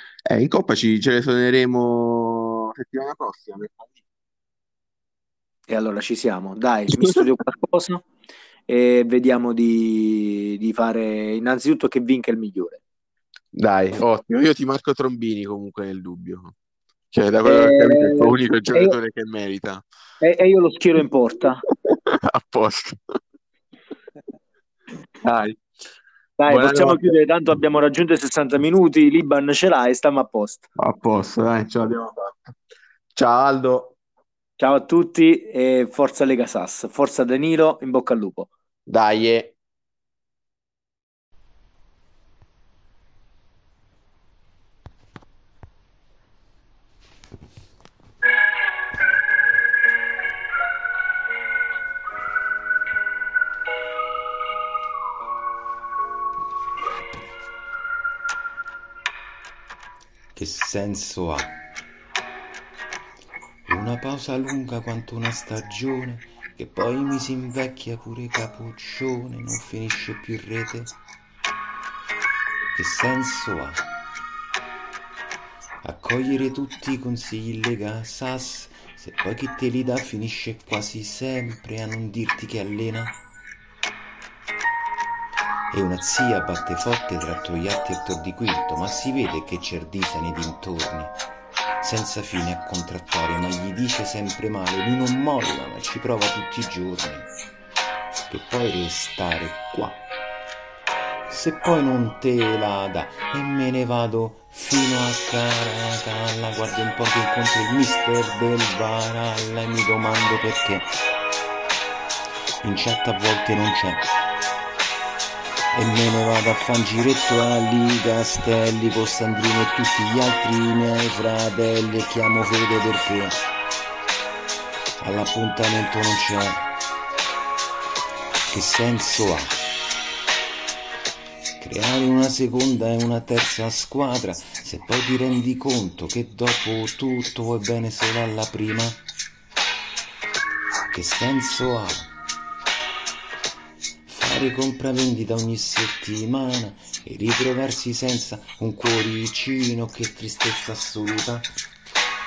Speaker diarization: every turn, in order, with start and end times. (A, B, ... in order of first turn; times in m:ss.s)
0:00.2-0:03.9 A
0:05.7-0:08.0 B
0:08.7-0:12.8 B
0:13.5-0:16.5 A
0:17.1-0:19.8 A
0:17.4-0:19.0 B
0:20.2-0:21.6 B
0:21.8-0:23.0 A
0:25.2-0:25.6 A
0:26.4-0:30.6 B
0:26.5-0:27.2 A
0:30.8-0:32.6 A
0:33.1-0:33.9 A
0:34.6-0:38.5 B
0:38.9-0:39.5 A
1:00.3-1:01.5 C
1:03.7-1:10.9 C
1:12.7-1:13.8 C
1:15.8-1:23.2 C
1:25.7-1:31.1 C
1:31.8-1:37.3 C
1:38.3-1:40.0 C
1:41.3-1:50.9 C
1:52.6-1:54.1 C
1:55.7-2:03.4 C
2:05.0-2:06.6 C
2:08.5-2:09.6 C
2:11.6-2:19.0 C
2:20.9-2:22.1 C
2:24.1-2:31.5 C